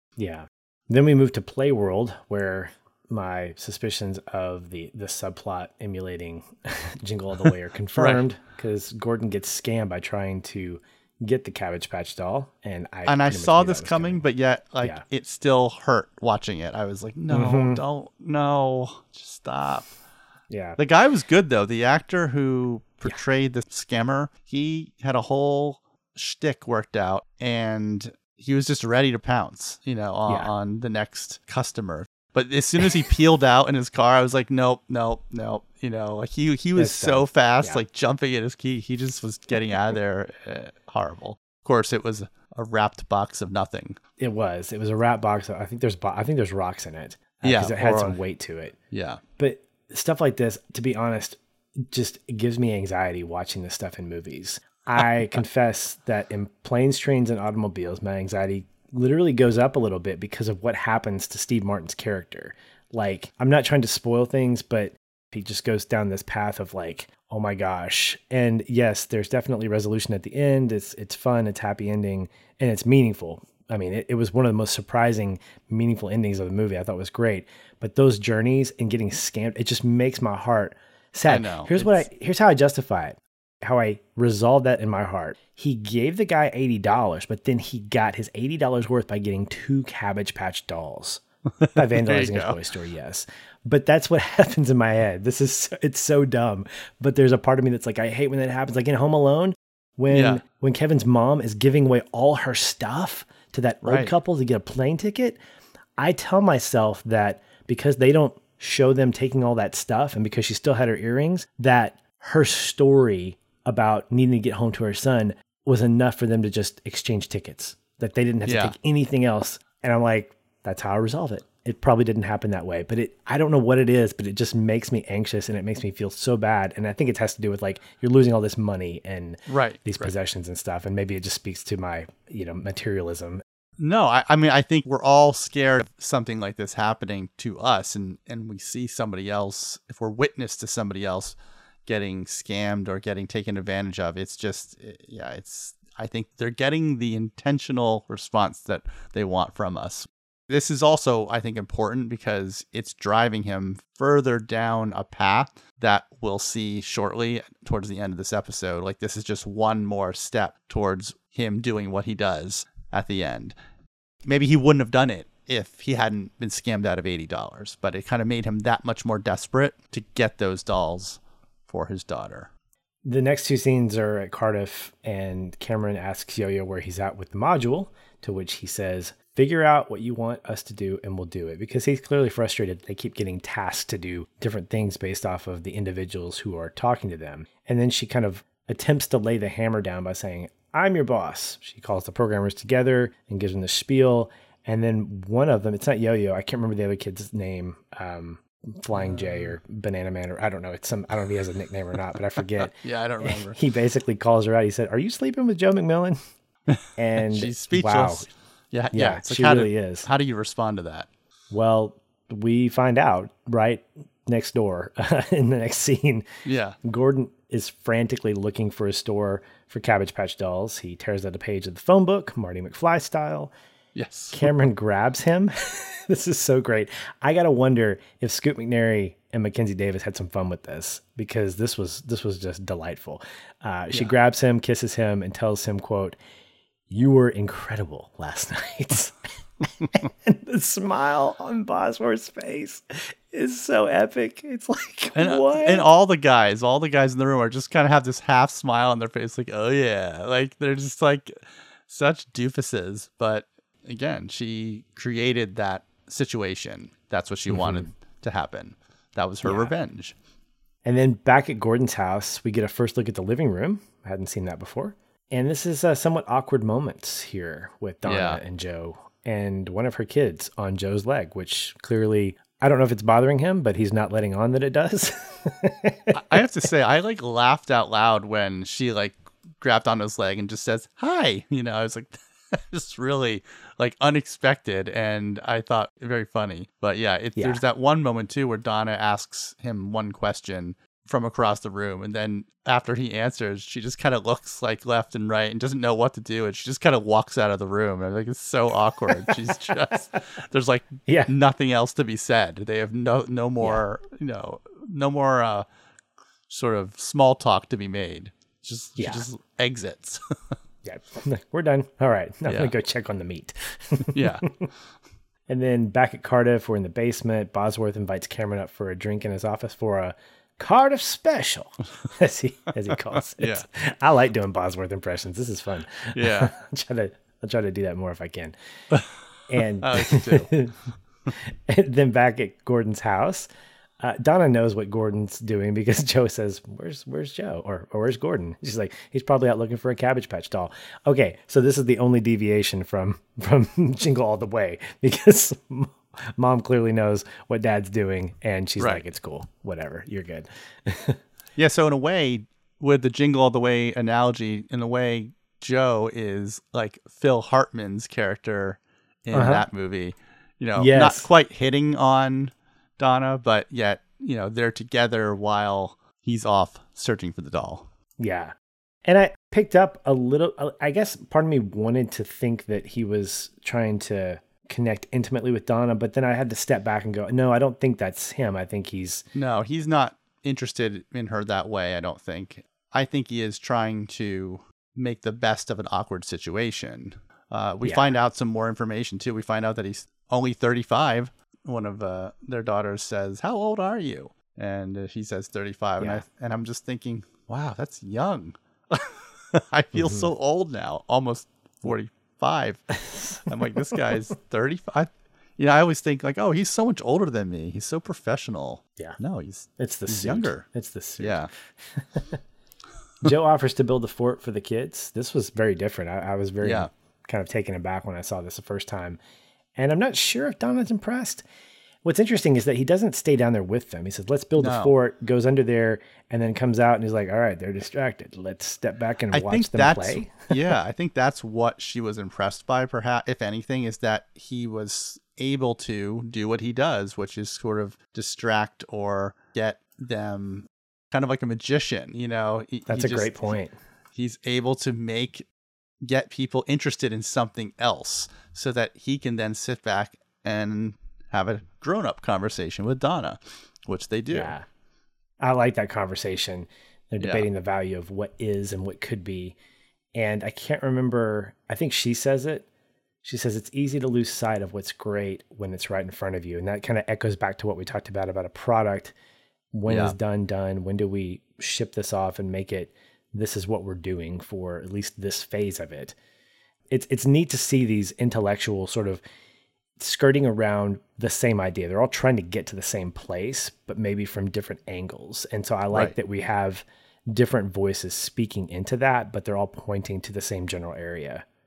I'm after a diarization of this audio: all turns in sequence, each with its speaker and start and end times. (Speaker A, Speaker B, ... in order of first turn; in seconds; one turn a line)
Speaker A: 0.2-14.2
Speaker B: 8.0-8.2
Speaker B: 13.1-19.9
Speaker A: 17.3-17.8
Speaker A: 20.5-20.8
Speaker B: 20.8-44.0
Speaker A: 36.8-37.8
Speaker A: 44.2-48.8
Speaker B: 47.4-48.2
Speaker B: 48.9-49.2
Speaker A: 49.4-91.2
Speaker B: 81.3-82.1
Speaker B: 91.6-92.6
Speaker A: 91.7-105.4
Speaker B: 100.1-100.4
Speaker B: 103.8-104.1
Speaker A: 106.0-133.4
Speaker B: 118.5-118.7
Speaker B: 129.5-130.1
Speaker B: 133.8-163.6
Speaker B: 164.2-172.5
Speaker A: 173.1-206.2
Speaker B: 199.0-199.3
Speaker B: 202.6-203.6
Speaker A: 207.0-208.3
Speaker B: 207.3-211.1
Speaker A: 208.9-210.1
Speaker A: 211.5-216.3
Speaker B: 216.4-216.8
Speaker A: 216.8-223.5
Speaker B: 223.9-224.5
Speaker A: 224.3-236.2
Speaker A: 236.9-239.2
Speaker A: 239.9-245.8
Speaker B: 245.2-260.2
Speaker A: 257.5-257.9
Speaker A: 259.4-259.7
Speaker A: 260.9-276.4
Speaker B: 268.1-268.4
Speaker B: 276.1-305.7
Speaker A: 287.4-287.6
Speaker B: 306.5-310.6
Speaker A: 309.0-309.2
Speaker A: 310.8-314.7
Speaker B: 312.5-312.7
Speaker B: 314.1-314.4
Speaker A: 315.5-328.5
Speaker B: 323.4-323.6
Speaker B: 326.1-326.5
Speaker A: 329.5-330.8
Speaker B: 329.8-330.5
Speaker A: 331.4-333.5
Speaker A: 334.0-351.2
Speaker B: 348.8-349.1
Speaker B: 351.6-367.9
Speaker A: 359.3-359.6
Speaker A: 360.8-361.3
Speaker A: 368.2-368.5
Speaker A: 369.1-379.2
Speaker B: 379.3-402.9
Speaker A: 387.8-388.1
Speaker A: 396.0-396.2
Speaker A: 399.9-400.3
Speaker A: 403.0-403.4
Speaker B: 403.5-410.6
Speaker A: 409.8-412.4
Speaker B: 411.2-411.5
Speaker A: 413.2-419.2
Speaker B: 416.6-416.9
Speaker A: 419.8-421.4
Speaker A: 422.0-430.5
Speaker B: 424.6-424.9
Speaker B: 429.3-443.6
Speaker A: 442.9-443.7
Speaker B: 444.1-445.4
Speaker B: 446.0-454.5
Speaker A: 454.3-454.6
Speaker A: 455.4-459.6
Speaker B: 457.2-457.5
Speaker A: 460.1-462.7
Speaker A: 463.2-469.1
Speaker A: 469.7-476.1
Speaker B: 469.9-470.2
Speaker A: 476.9-479.2
Speaker A: 480.0-491.4